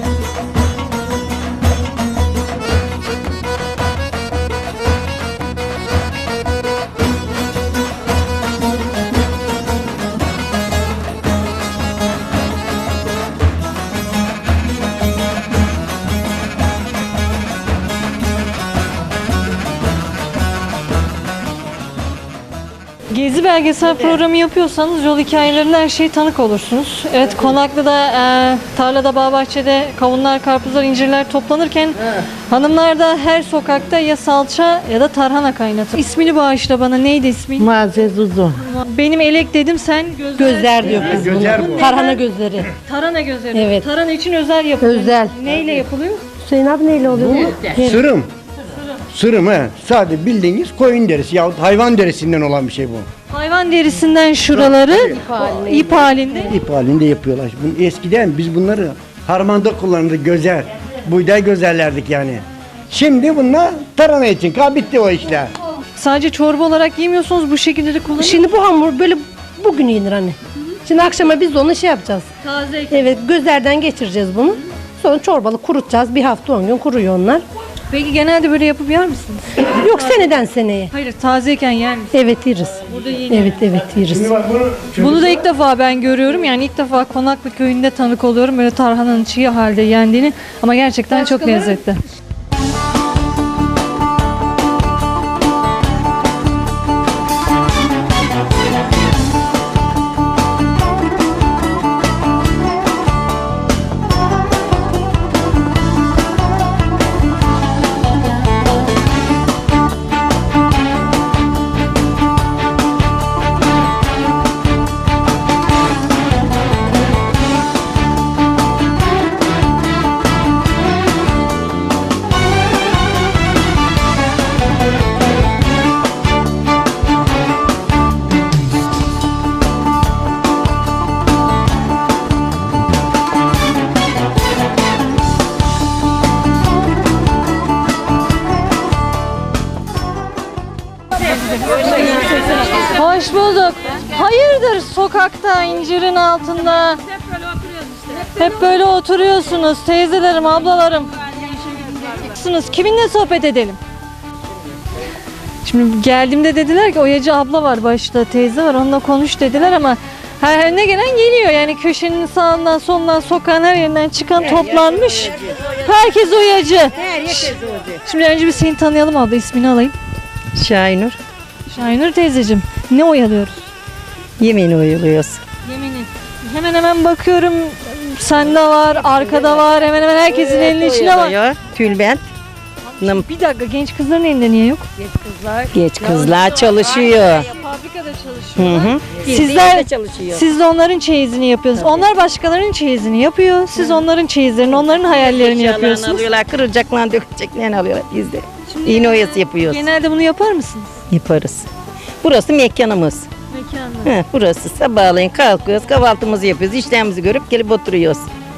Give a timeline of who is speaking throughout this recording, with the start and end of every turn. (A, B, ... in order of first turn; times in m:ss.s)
0:23.1-0:32.0 A
0:32.5-0:37.8 A
0:37.8-0:38.4 B
0:38.5-0:42.2 A
0:40.4-0:42.7 C
0:41.0-0:41.9 D
0:42.8-0:46.2 A
0:43.5-0:43.9 C
0:44.8-0:45.4 C
0:46.4-0:48.0 C
0:47.1-0:48.3 D
0:49.1-0:53.1 D
0:53.3-0:56.5 A
0:54.5-0:55.2 D
0:55.4-0:55.8 C
0:56.5-1:05.5 D
1:06.0-1:08.4 A
1:08.2-1:12.3 C
1:12.4-1:13.0 A
1:12.9-1:17.4 C
1:17.9-1:20.3 A
1:19.7-1:20.9 C
1:20.9-1:22.1 A
1:22.1-1:24.3 C
1:22.9-1:23.5 A
1:24.1-1:25.4 D
1:25.0-1:32.0 A
1:31.3-1:31.7 C
2:22.1-2:27.0 A
2:28.4-2:31.1 A
2:32.1-2:33.8 A
2:35.6-2:49.9 A
2:44.4-2:45.6 B
2:47.0-2:48.0 B
2:50.5-2:51.2 B
2:51.7-2:53.7 A
2:54.4-2:55.4 B
2:55.6-3:01.4 A
3:00.3-3:02.2 B
3:03.0-3:04.9 A
3:03.0-3:03.2 B
3:05.1-3:07.5 B
3:07.5-3:16.3 A
3:08.6-3:10.4 B
3:15.0-3:19.8 B
3:18.7-3:21.0 A
3:21.1-3:21.7 B
3:22.2-3:23.3 B
3:23.5-3:24.2 A
3:24.0-3:28.3 B